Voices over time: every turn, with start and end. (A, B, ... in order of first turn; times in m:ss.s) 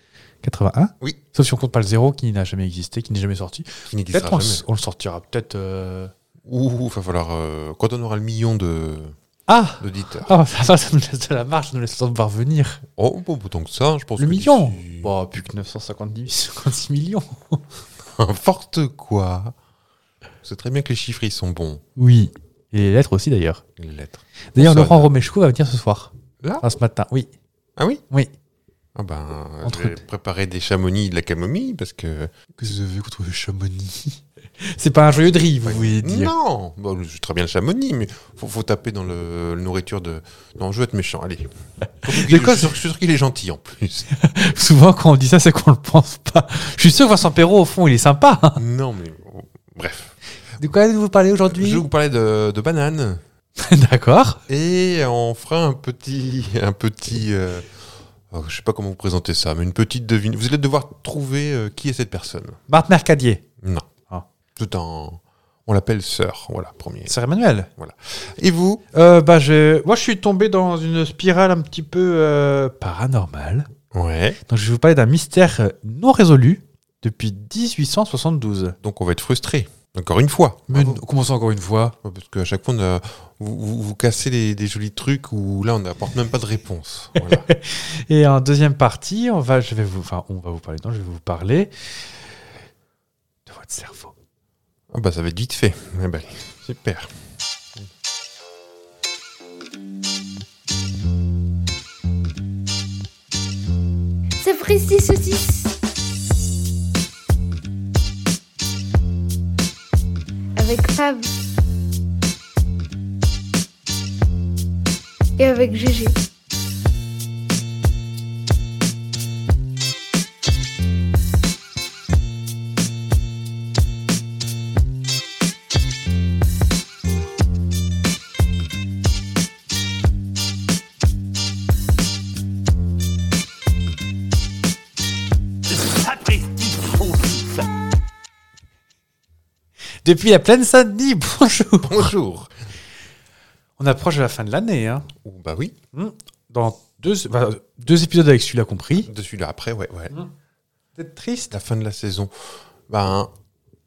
0:00.4-0:06.1 A
0:03.9-0:04.6 B
0:06.4-0:09.1 B
0:09.5-0:12.8 A
0:09.8-0:10.3 B
0:13.0-0:15.1 B
0:14.2-0:17.6 A
0:18.1-0:19.5 B
0:20.4-0:21.8 B
0:22.0-0:23.6 A
0:23.8-0:25.1 B
0:24.5-0:27.3 A
0:27.8-0:28.0 B
0:28.9-0:32.3 B
0:29.6-0:30.0 A
0:32.6-0:36.3 A
0:35.6-0:41.5 B
0:42.0-0:44.1 B
0:42.0-0:42.8 A
0:44.1-0:48.6 A
0:48.6-0:50.2 B
0:50.6-0:51.8 A
0:51.5-0:53.2 B
0:53.6-0:54.4 A
0:54.5-0:57.8 B
0:58.3-1:02.6 B
1:02.7-1:03.4 A
1:03.6-1:03.9 B
1:04.6-1:07.1 B
1:07.0-1:07.7 A
1:07.8-1:08.8 B
1:08.9-1:13.7 A
1:13.9-1:14.4 B
1:14.4-1:18.8 A
1:18.8-1:21.0 B
1:20.7-1:22.0 A
1:22.0-1:27.4 B
1:27.2-1:31.7 A
1:33.4-1:34.1 A
1:34.9-1:37.1 B
1:44.4-1:45.7 C
1:50.6-1:51.3 C
1:55.4-1:56.2 C
2:15.8-2:17.6 A
2:20.0-2:22.1 A
2:21.8-2:22.5 B
2:23.8-2:25.1 A
2:25.2-2:25.8 B
2:25.9-2:29.1 A
2:29.0-2:30.1 B
2:31.0-2:31.5 A
2:31.5-2:33.3 B